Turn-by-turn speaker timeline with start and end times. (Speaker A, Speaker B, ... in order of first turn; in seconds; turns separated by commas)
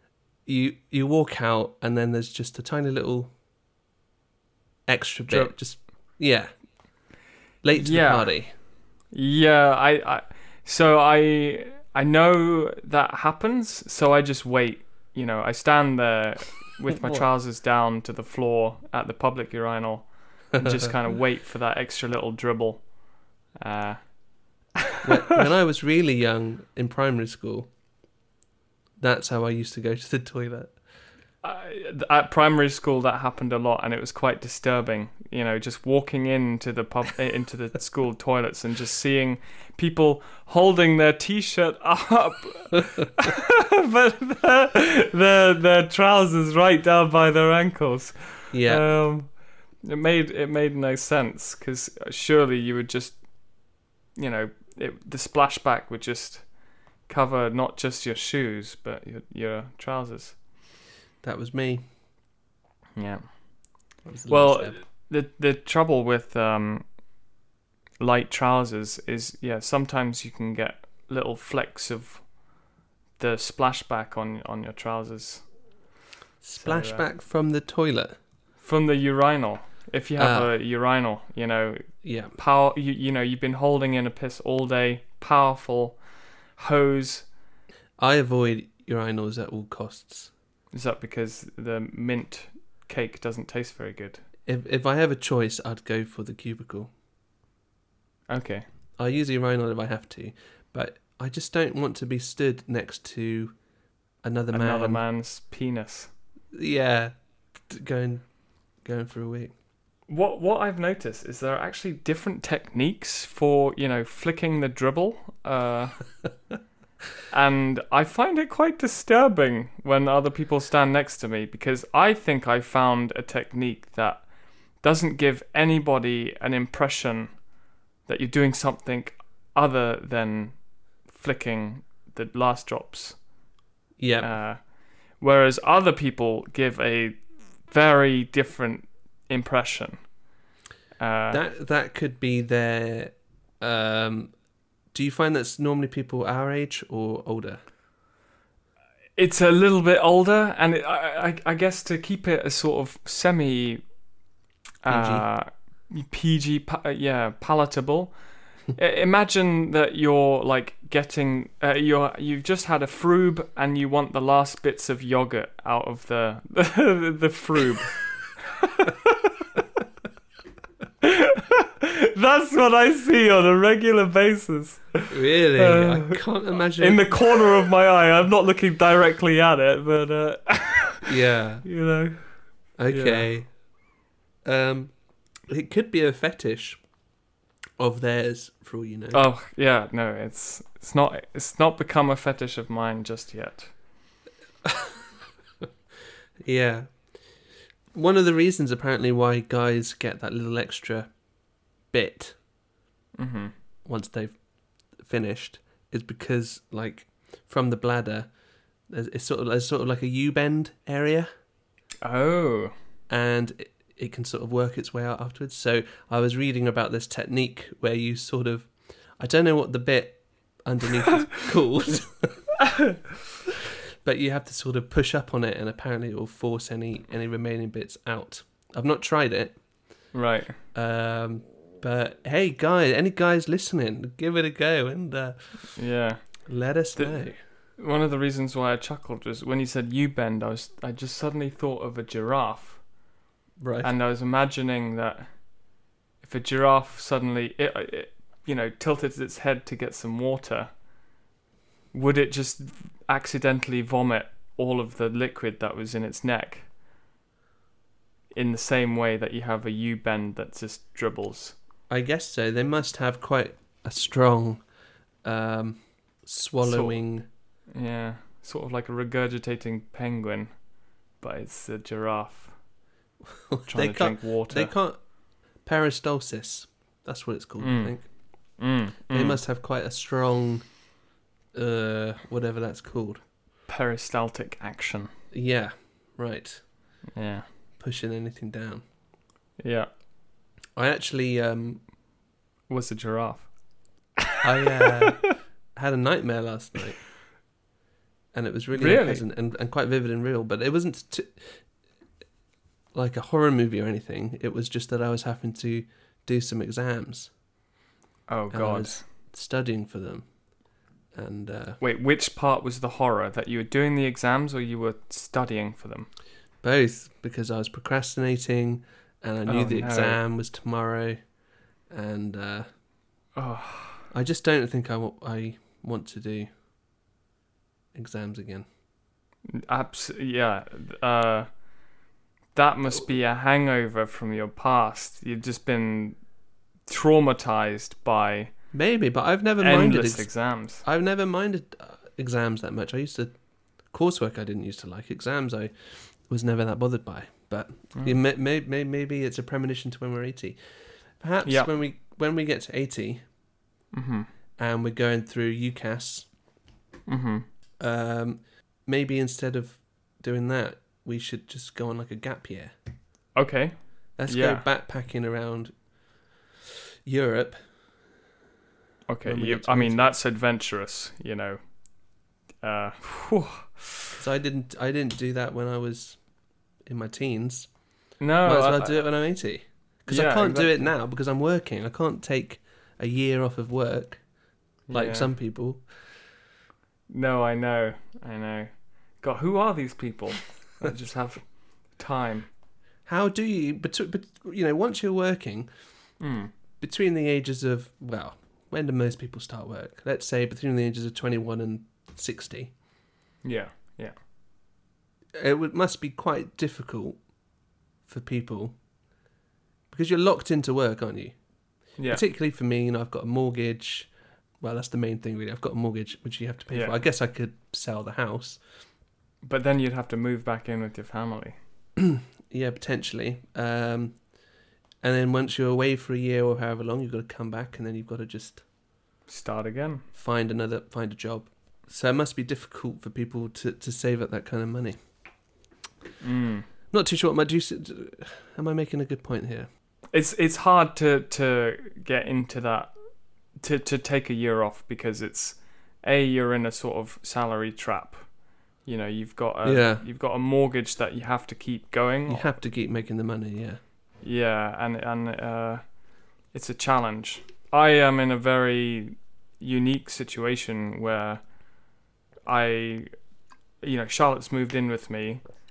Speaker A: 0.5-3.3, Speaker A: 4.9-6.5, Speaker B: 5.3-5.5, Speaker A: 7.6-8.5, Speaker B: 7.8-8.3, Speaker B: 9.1-22.9, Speaker A: 17.0-17.2, Speaker B: 23.5-24.2, Speaker A: 25.0-27.7, Speaker A: 29.0-30.8, Speaker B: 31.4-53.2, Speaker A: 48.5-49.0, Speaker B: 54.1-56.5, Speaker B: 57.1-60.4, Speaker A: 61.2-61.9, Speaker B: 63.0-63.4, Speaker A: 64.0-64.8, Speaker B: 64.3-66.9, Speaker B: 68.0-72.3, Speaker B: 73.2-75.5, Speaker A: 76.4-78.2, Speaker B: 76.6-77.0, Speaker B: 78.6-86.0, Speaker A: 80.2-80.5, Speaker A: 82.0-82.3, Speaker B: 86.6-87.3, Speaker A: 88.0-90.3, Speaker B: 90.7-94.2, Speaker A: 94.5-96.9, Speaker B: 98.3-98.7, Speaker A: 99.0-103.6, Speaker A: 104.2-105.0, Speaker B: 104.5-106.1, Speaker A: 106.5-107.2, Speaker A: 107.7-108.3, Speaker A: 108.8-109.5, Speaker B: 110.1-116.0, Speaker B: 117.3-127.5, Speaker B: 128.1-133.2, Speaker A: 134.0-134.4, Speaker B: 134.2-140.1, Speaker B: 141.0-141.4, Speaker A: 141.3-144.3, Speaker A: 144.9-147.6, Speaker B: 149.2-153.8, Speaker B: 154.8-158.2, Speaker A: 154.9-155.3, Speaker B: 158.8-168.0, Speaker B: 168.6-169.2, Speaker B: 171.0-176.2, Speaker A: 175.1-177.4, Speaker B: 176.8-181.1, Speaker A: 181.1-181.7, Speaker B: 181.7-182.3, Speaker A: 182.8-183.5, Speaker B: 182.9-183.3, Speaker A: 184.4-184.9, Speaker A: 185.5-186.8, Speaker A: 187.8-189.2, Speaker B: 189.1-193.7, Speaker A: 194.6-195.1, Speaker A: 196.4-197.0, Speaker A: 197.9-201.1, Speaker A: 201.9-202.4, Speaker B: 203.2-203.5, Speaker A: 203.9-204.3, Speaker A: 205.0-208.3, Speaker A: 208.9-211.3, Speaker B: 212.0-212.7, Speaker A: 213.1-222.5, Speaker A: 224.0-229.6, Speaker B: 230.1-230.6, Speaker A: 230.7-235.7, Speaker B: 235.8-236.2, Speaker A: 236.5-237.4, Speaker B: 237.0-237.2, Speaker B: 237.8-242.8, Speaker A: 243.6-243.9, Speaker B: 243.8-245.4, Speaker B: 246.2-250.7, Speaker B: 251.9-256.7, Speaker B: 258.3-261.6, Speaker A: 261.9-264.6, Speaker A: 265.2-267.3, Speaker B: 266.6-267.0, Speaker B: 267.7-272.6, Speaker A: 273.3-275.1, Speaker B: 273.7-274.7, Speaker A: 275.6-278.1, Speaker B: 277.6-278.0, Speaker B: 278.6-279.4, Speaker A: 279.1-280.7, Speaker A: 281.5-283.2, Speaker B: 283.7-285.1, Speaker A: 285.3-286.6, Speaker B: 287.1-287.4, Speaker A: 287.8-288.9, Speaker B: 289.6-289.9, Speaker A: 290.8-291.8, Speaker B: 292.7-293.5, Speaker A: 294.4-297.0, Speaker A: 298.3-301.6, Speaker B: 298.7-299.2, Speaker A: 302.9-307.3, Speaker B: 308.3-309.0, Speaker A: 308.5-310.3, Speaker A: 311.1-311.8, Speaker B: 311.8-316.1, Speaker A: 316.6-321.2, Speaker B: 319.5-320.2, Speaker A: 321.9-322.7, Speaker B: 323.4-324.1, Speaker A: 324.1-326.5, Speaker A: 327.9-328.7, Speaker B: 329.5-331.5, Speaker B: 332.5-336.2, Speaker B: 336.9-338.5, Speaker A: 338.7-343.3, Speaker B: 339.6-340.8, Speaker A: 343.9-350.6, Speaker A: 351.2-353.2, Speaker B: 353.9-354.3, Speaker A: 354.6-356.3, Speaker B: 357.1-357.5, Speaker A: 357.8-362.7, Speaker B: 363.4-364.6, Speaker A: 364.2-365.7, Speaker A: 367.1-367.6, Speaker B: 369.1-371.7, Speaker A: 369.2-370.1, Speaker B: 372.6-374.2, Speaker A: 374.2-376.2, Speaker A: 376.8-377.7, Speaker B: 378.2-379.1, Speaker A: 378.4-384.2, Speaker B: 380.1-380.9, Speaker B: 384.9-385.3, Speaker A: 384.9-385.8, Speaker B: 387.1-392.5, Speaker A: 393.1-395.7, Speaker B: 396.2-396.5, Speaker A: 396.8-402.7, Speaker B: 403.4-404.1, Speaker A: 405.4-407.2, Speaker A: 408.1-408.8, Speaker A: 409.9-411.4, Speaker A: 412.1-414.1, Speaker A: 414.6-418.6, Speaker B: 419.4-421.6, Speaker A: 422.0-424.2, Speaker A: 425.0-428.6, Speaker B: 429.3-430.1, Speaker A: 430.1-435.0, Speaker B: 436.2-436.7, Speaker A: 436.9-439.7, Speaker B: 440.1-442.9, Speaker B: 443.6-452.5, Speaker A: 449.6-450.0, Speaker A: 452.3-453.8, Speaker B: 454.2-456.0, Speaker B: 456.5-461.6, Speaker B: 462.5-463.1, Speaker B: 463.8-465.4